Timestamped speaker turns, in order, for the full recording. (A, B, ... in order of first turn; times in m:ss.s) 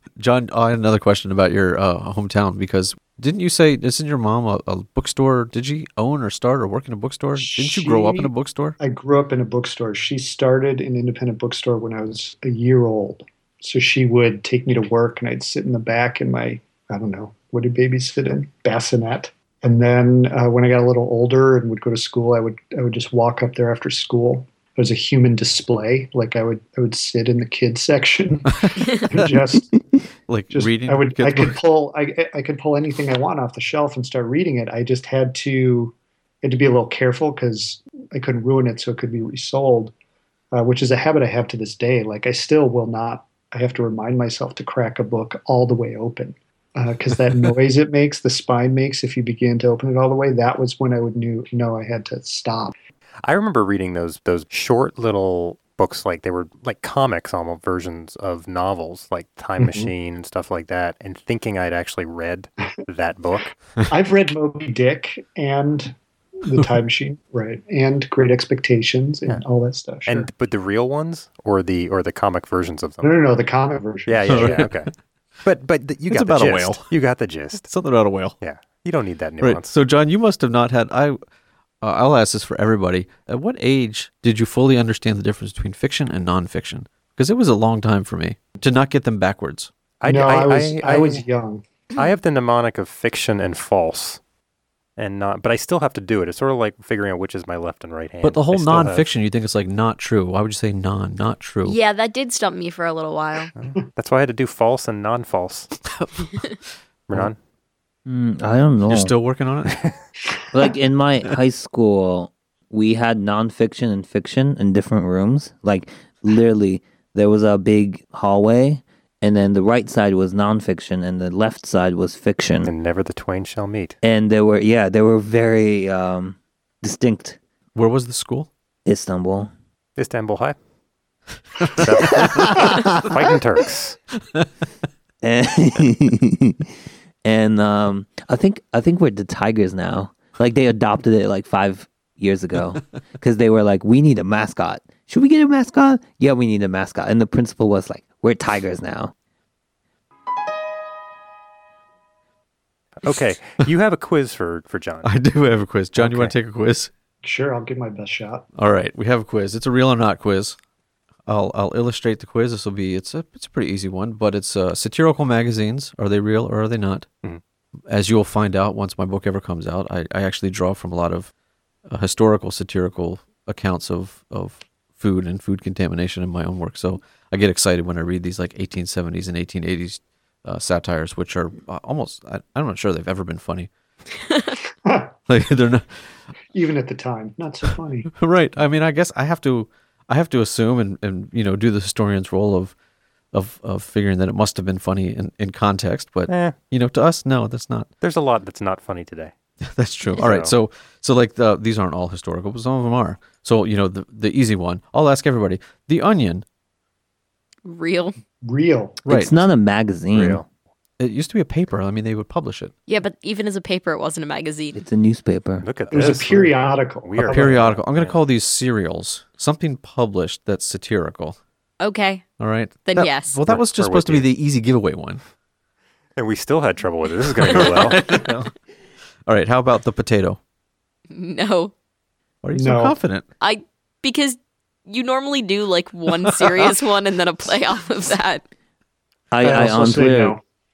0:00.2-0:08.8 A
0:07.4-0:29.8 B
0:30.3-0:31.6 A
0:30.5-0:39.9 B
0:40.5-0:52.7 B
0:53.2-1:03.6 C
0:59.6-0:59.9 B
1:03.9-1:10.3 B
1:10.1-1:13.1 C
1:13.0-1:14.7 B
1:14.1-1:14.9 C
1:14.3-1:14.8 A
1:15.4-1:17.7 C
1:16.1-1:16.9 A
1:17.6-1:18.4 A
1:18.4-1:19.8 C
1:19.4-1:21.2 A
1:21.8-1:29.7 A
1:30.0-1:31.2 C
1:30.1-1:31.6 B
1:32.0-1:34.2 C
1:35.0-1:39.1 C
1:38.2-1:41.8 A
1:41.6-1:43.5 D
1:43.6-1:45.7 C
1:45.9-1:46.4 A
1:47.1-1:47.4 C
1:48.1-1:49.1 E
1:48.9-1:49.8 A
1:50.5-2:02.7 E
2:02.6-2:04.0 C
2:04.0-2:07.4 E
2:07.8-2:08.5 A
2:08.9-2:09.5 E
2:10.0-2:10.6 C
2:11.6-2:12.6 A
2:11.8-2:14.0 C
2:12.1-2:13.0 E
2:15.2-2:16.7 E
2:17.2-2:29.1 E
2:33.0-2:35.1 C
2:35.0-2:36.9 A
2:36.0-2:36.3 C
2:37.2-2:38.5 B
2:38.6-2:40.6 A
2:41.3-2:47.1 A
2:47.9-2:51.3 A
2:51.9-3:03.7 A
3:04.8-3:05.1 B
3:05.3-3:06.0 A
3:06.5-3:08.1 B
3:08.1-3:12.7 A
3:13.3-3:17.9 A
3:16.3-3:16.6 C
3:18.0-3:19.3 C
3:19.6-3:26.4 A
3:20.2-3:20.5 C
3:27.6-3:28.2 D
3:28.4-3:29.0 B
3:29.1-3:29.4 A
3:29.1-3:30.4 E
3:30.1-3:30.5 C
3:31.0-3:32.7 A
3:32.9-3:34.8 D
3:34.8-3:35.7 E
3:35.6-3:38.2 C
3:35.9-3:37.8 B
3:37.3-3:41.4 A
3:41.8-3:42.2 D
3:42.4-3:45.2 A
3:42.9-3:43.4 D
3:43.5-3:44.3 C
3:46.2-3:48.0 C
3:47.4-3:48.5 A
3:49.3-3:50.4 A
3:51.1-3:51.7 D
3:52.4-3:53.3 A
3:52.5-3:53.0 B
3:53.4-3:58.4 D
3:56.2-3:56.7 A
3:59.3-4:00.4 E
3:59.4-4:00.4 B